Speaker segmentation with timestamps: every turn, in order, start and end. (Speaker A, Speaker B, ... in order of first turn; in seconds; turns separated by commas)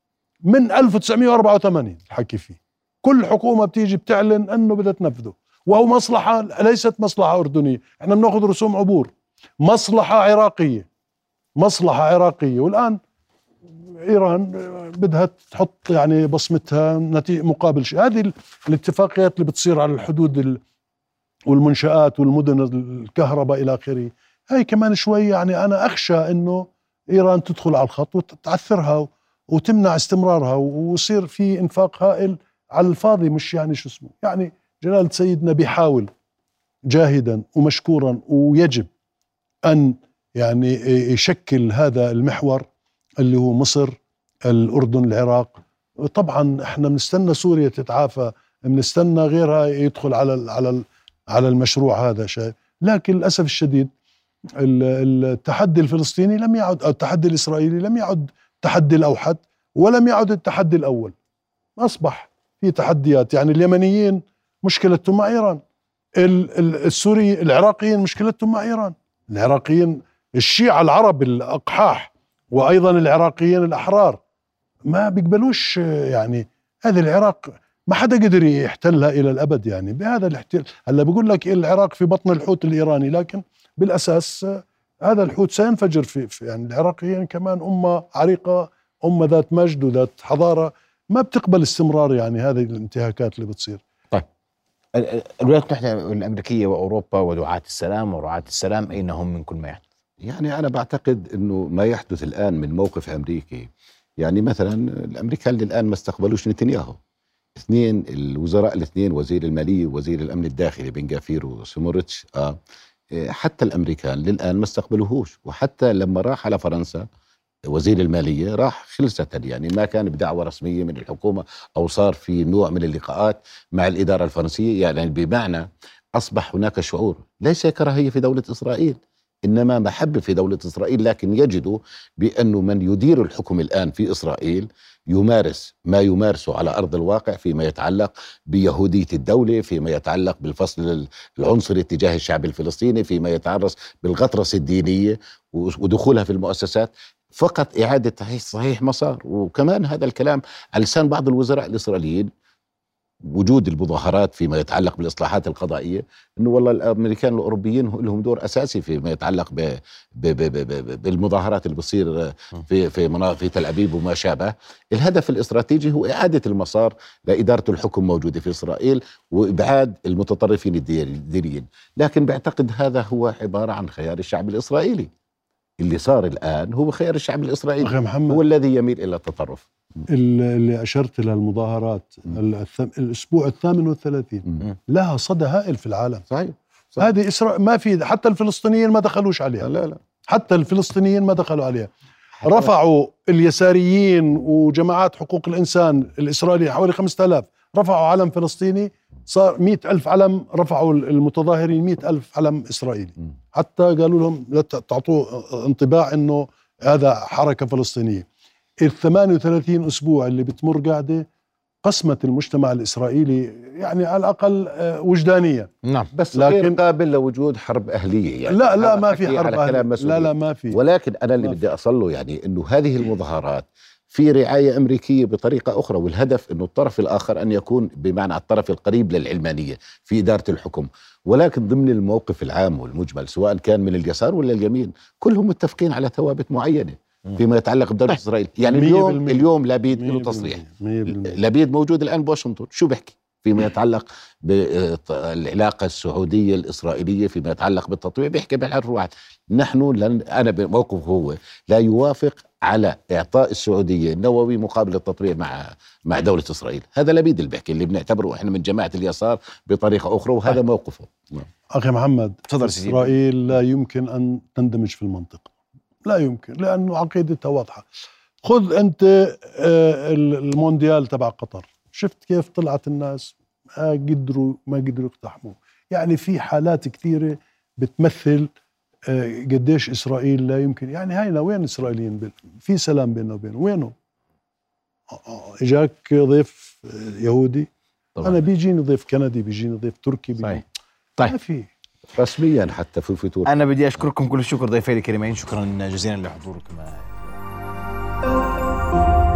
Speaker A: 0.5-9.1, Speaker A: 9.6-10.9, Speaker A: 11.6-13.0, Speaker A: 14.0-20.6, Speaker A: 21.5-36.1, Speaker A: 36.9-38.9, Speaker A: 39.6-42.7, Speaker A: 43.2-53.9, Speaker A: 54.6-61.1, Speaker A: 61.8-65.6, Speaker A: 66.2-74.2, Speaker A: 74.9-93.8, Speaker B: 94.9-99.8, Speaker C: 100.2-107.0, Speaker C: 107.6-112.6, Speaker C: 113.1-117.1, Speaker C: 117.7-152.3, Speaker C: 153.3-175.1, Speaker C: 175.8-179.7, Speaker A: 177.8-178.4, Speaker A: 180.1-186.2, Speaker C: 186.3-187.1, Speaker A: 187.0-189.7, Speaker C: 189.6-190.0, Speaker A: 190.3-191.9, Speaker A: 192.4-208.3, Speaker A: 208.8-211.3, Speaker A: 211.8-215.7, Speaker B: 215.8-216.1, Speaker C: 216.1-261.5, Speaker A: 216.3-216.8, Speaker A: 218.5-220.8, Speaker A: 238.6-241.4, Speaker A: 261.7-265.5, Speaker B: 262.5-263.2, Speaker A: 266.1-267.9, Speaker A: 268.4-278.5, Speaker A: 279.1-283.9, Speaker A: 285.1-287.7, Speaker A: 288.2-290.6, Speaker A: 291.3-291.7, Speaker C: 292.1-293.5, Speaker B: 293.4-297.4